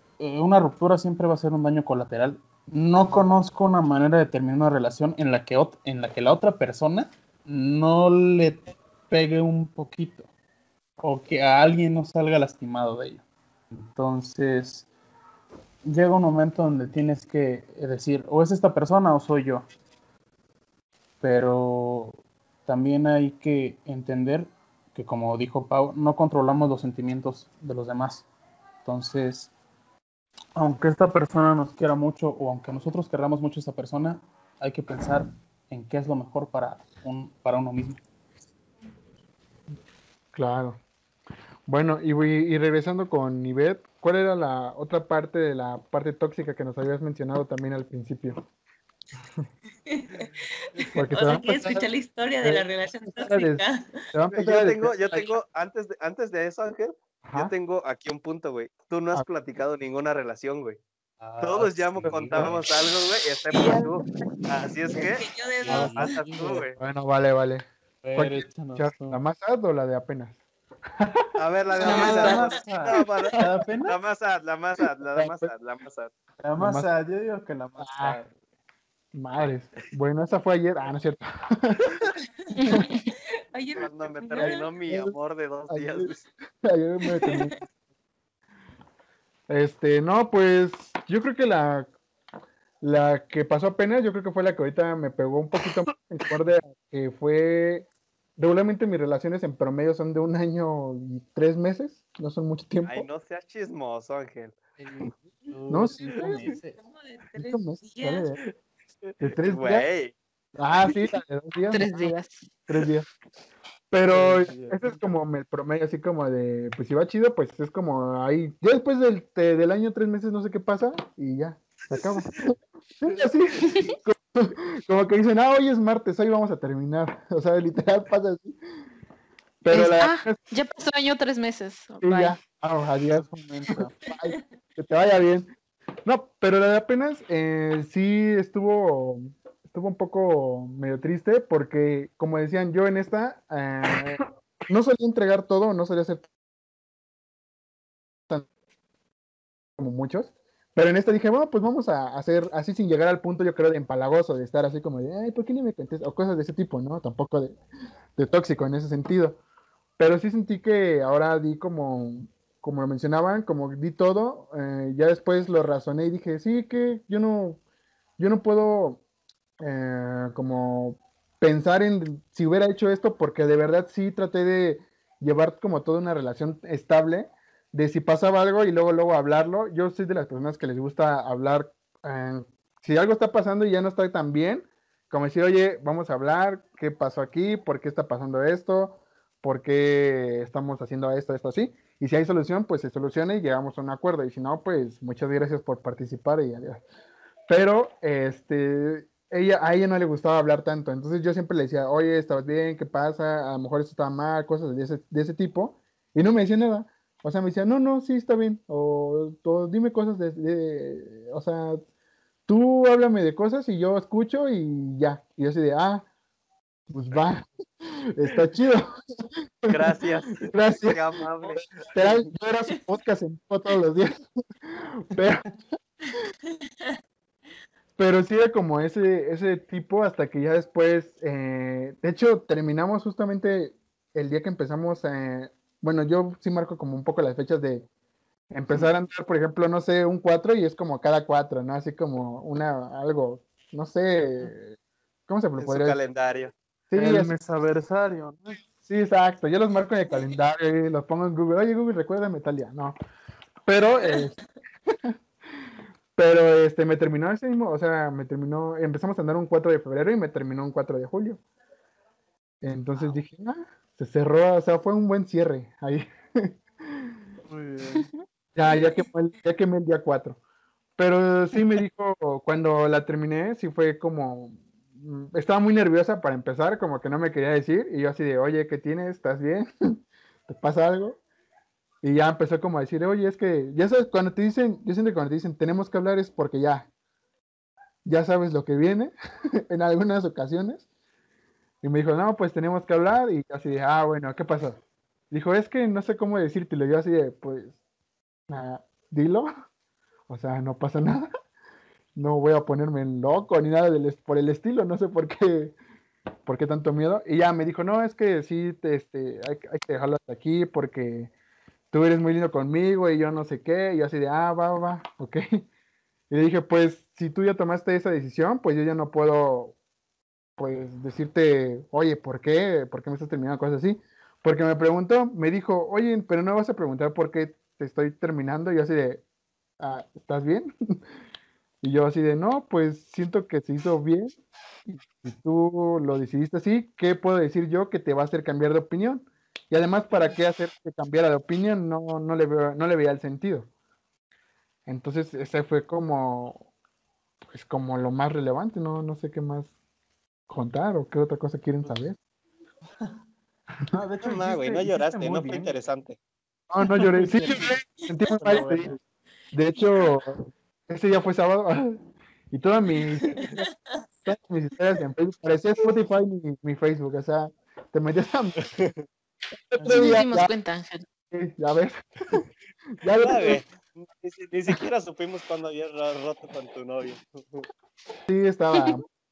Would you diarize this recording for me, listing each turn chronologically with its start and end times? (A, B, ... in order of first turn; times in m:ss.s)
0:00.2-0:10.3 A
0:11.0-0:13.2 A
0:13.8-0:14.9 A
0:15.8-0:19.7 A
0:21.2-0:28.3 A
0:28.8-0:29.5 A
0:30.6-0:38.0 A
0:40.3-0:40.8 B
0:41.7-0:48.4 B
0:49.9-0:54.0 C
0:50.9-0:51.8 B
0:52.4-0:55.3 B
0:54.3-1:00.8 D
0:57.2-0:57.5 B
1:01.2-1:02.6 A
1:01.4-1:06.8 D
1:02.0-1:02.6 B
1:03.6-1:03.9 C
1:04.9-1:06.1 C
1:05.6-1:06.6 A
1:06.8-1:10.4 B
1:08.0-1:09.2 A
1:11.0-1:11.3 B
1:11.4-1:16.1 D
1:11.8-1:14.0 A
1:11.8-1:12.4 E
1:11.8-1:12.4 C
1:15.1-1:15.5 B
1:16.4-1:18.3 A
1:16.6-1:16.9 B
1:17.8-1:18.2 B
1:19.1-1:21.9 B
1:22.5-1:24.6 C
1:22.6-1:23.1 E
1:23.8-1:26.2 D
1:24.4-1:25.1 B
1:25.7-1:26.1 B
1:26.6-1:27.6 B
1:27.2-1:27.5 C
1:29.5-1:31.9 B
1:32.8-1:43.1 B
1:42.8-1:44.5 D
1:44.8-1:46.8 A
1:45.7-1:46.2 B
1:46.8-1:48.3 C
1:47.4-1:48.4 B
1:49.0-1:50.1 D
1:49.2-1:49.8 B
1:50.6-1:52.1 B
1:51.7-1:52.4 E
1:52.7-1:53.1 B
1:53.9-2:08.6 B
1:54.1-1:55.1 A
2:09.6-2:10.4 B
2:09.7-2:12.4 E
2:12.0-2:15.5 B
2:13.2-2:13.9 A
2:16.0-2:26.2 B
2:29.8-2:37.6 B
2:38.2-2:39.4 B
2:40.0-2:47.6 B
2:48.2-2:49.0 B
2:49.6-3:16.8 B
3:17.5-3:31.8 B
3:32.5-3:36.0 B
3:36.9-3:39.0 B
3:39.6-3:45.4 B
3:39.7-3:42.3 D
3:46.5-3:46.9 C
3:48.0-3:57.9 B
3:58.5-4:04.8 B
4:05.3-4:06.0 B
4:05.6-4:06.5 D
4:06.9-4:07.3 B
4:07.0-4:08.6 A
4:08.8-4:13.0 B
4:13.6-4:14.4 B
4:14.9-4:15.1 B
4:16.2-4:21.4 B
4:22.6-4:27.1 B
4:27.5-4:28.1 A
4:28.5-4:30.4 B
4:31.0-4:39.7 B
4:40.5-4:41.2 B
4:42.0-4:46.9 B
4:48.0-4:49.1 B
4:49.7-4:50.8 B
4:51.8-4:54.8 B
4:55.3-4:57.8 B
4:58.5-4:59.5 B
5:00.3-5:01.3 B
5:02.2-5:05.8 B
5:06.4-5:11.3 B
5:11.9-5:15.7 B
5:16.3-5:19.8 B
5:20.6-5:29.2 B
5:29.8-5:30.7 B
5:31.8-5:34.3 B
5:34.9-5:43.7 B
5:44.9-5:46.7 B
5:47.5-5:49.7 B
5:50.5-5:52.2 B
5:53.9-5:55.7 A
5:54.2-5:56.2 D
5:56.7-5:58.9 B
5:57.0-5:57.8 A
5:58.4-5:59.0 A
5:59.5-6:03.7 B
6:04.2-6:08.6 B
6:08.6-6:09.0 D
6:09.5-6:10.5 B
6:09.8-6:11.1 E
6:11.3-6:12.4 B
6:13.0-6:13.6 B
6:13.2-6:17.6 D
6:18.3-6:19.0 B